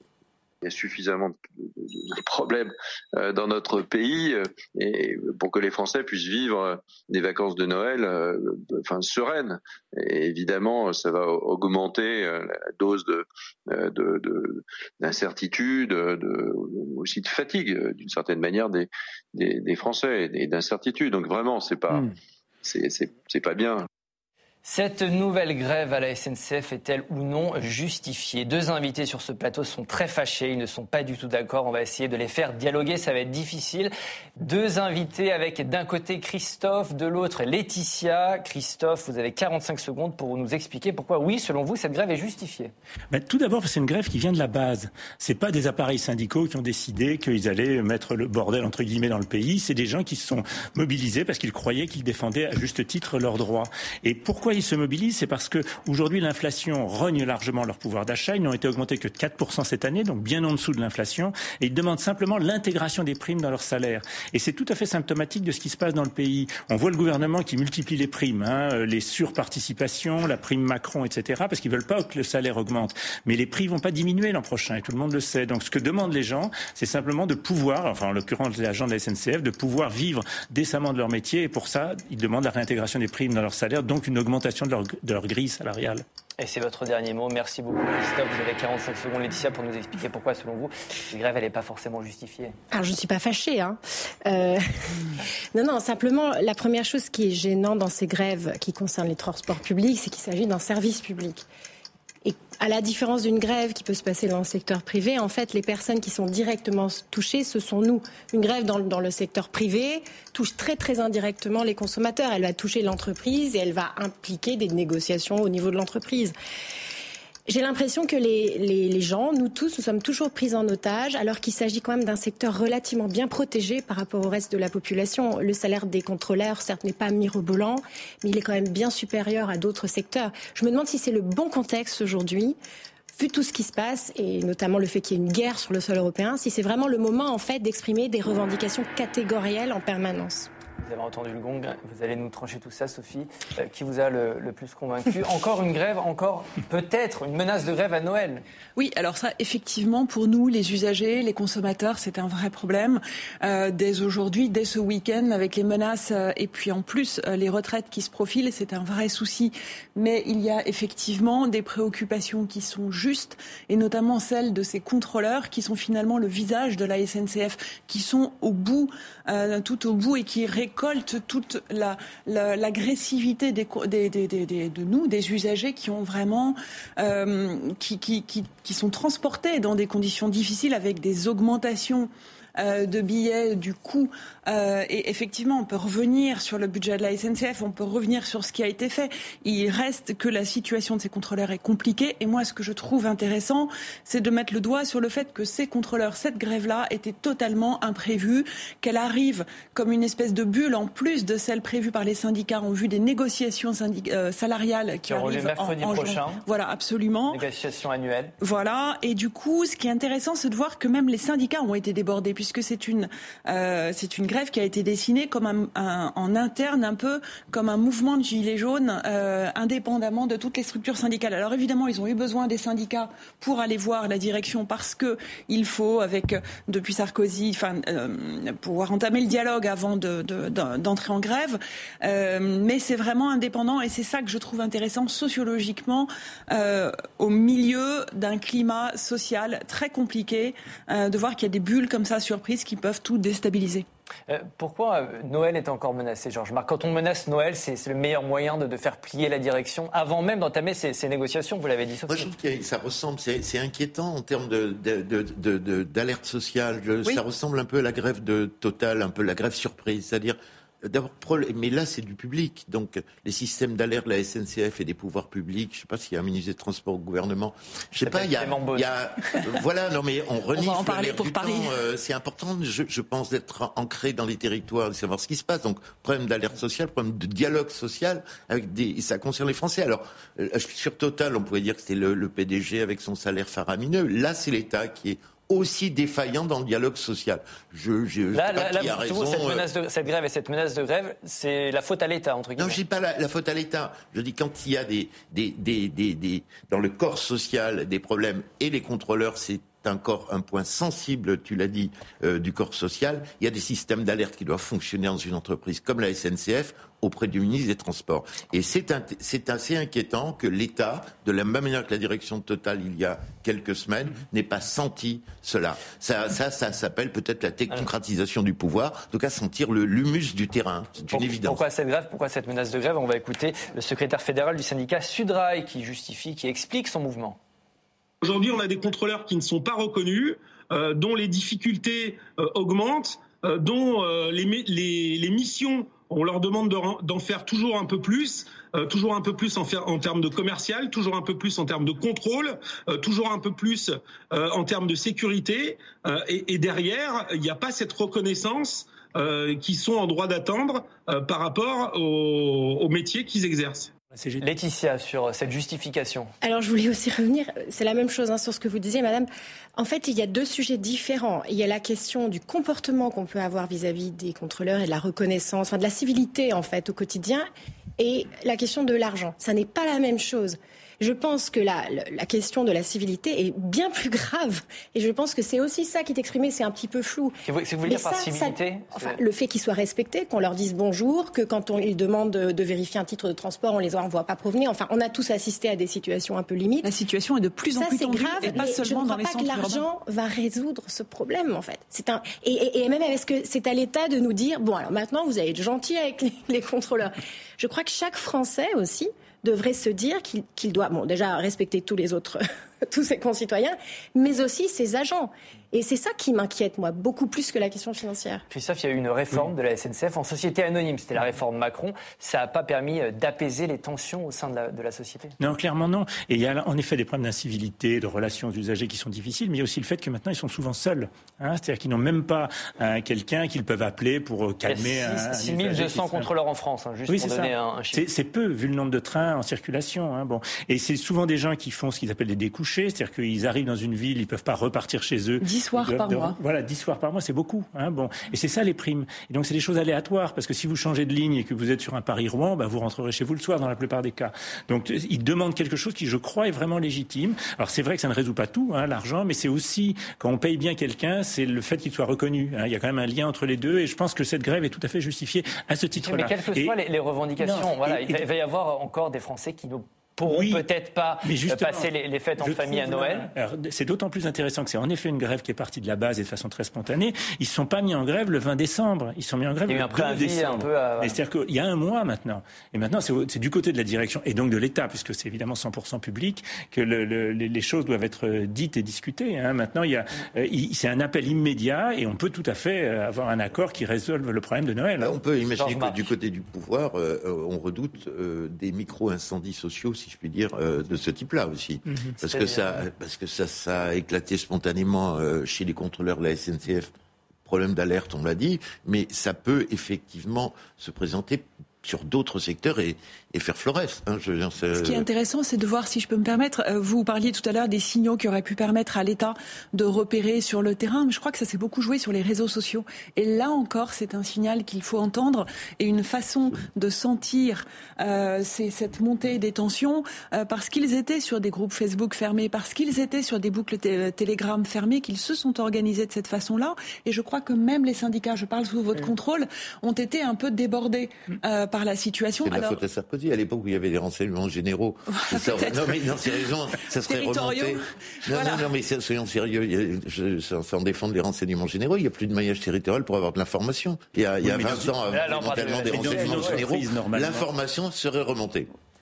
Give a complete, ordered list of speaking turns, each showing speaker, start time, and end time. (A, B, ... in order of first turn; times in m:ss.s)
0:00.6-0:23.9 A
0:24.6-0:42.7 B
0:43.1-1:26.0 C
1:26.4-1:32.6 B
1:32.7-1:41.4 D
1:42.2-1:56.3 D
1:57.5-2:12.6 D
2:13.1-2:20.5 D
2:20.8-2:28.4 B
2:28.8-3:27.4 E
3:25.1-3:26.4 B
3:27.3-3:28.3 B
3:28.4-4:03.8 E
4:04.3-4:12.3 B
4:12.1-4:49.6 F
4:28.0-4:28.9 B
4:30.5-4:31.8 E
4:48.3-4:52.8 B
4:52.6-5:21.6 F
5:21.1-5:27.4 B
5:28.2-5:53.9 G
5:54.1-5:54.4 C
5:54.4-5:56.3 B
5:56.4-6:07.4 D
6:08.0-6:26.9 D
6:17.4-6:19.2 B
6:26.8-6:29.8 E
6:27.8-6:48.4 D
6:48.5-6:55.3 B
6:55.4-7:06.3 C
7:04.7-7:08.0 B
7:07.1-7:36.7 C
7:15.4-7:16.4 E
7:36.0-7:43.3 B
7:37.4-7:38.2 C
7:40.2-7:40.6 C
7:41.2-8:05.2 C
7:49.7-7:51.2 B
8:05.0-8:16.9 F
8:05.6-8:06.1 B
8:12.2-8:12.8 B
8:17.4-8:25.0 F
8:24.7-8:52.8 E
8:52.4-9:08.7 F
8:55.1-8:58.7 E
9:04.4-9:05.0 C
9:05.1-9:06.6 B
9:05.8-9:07.5 C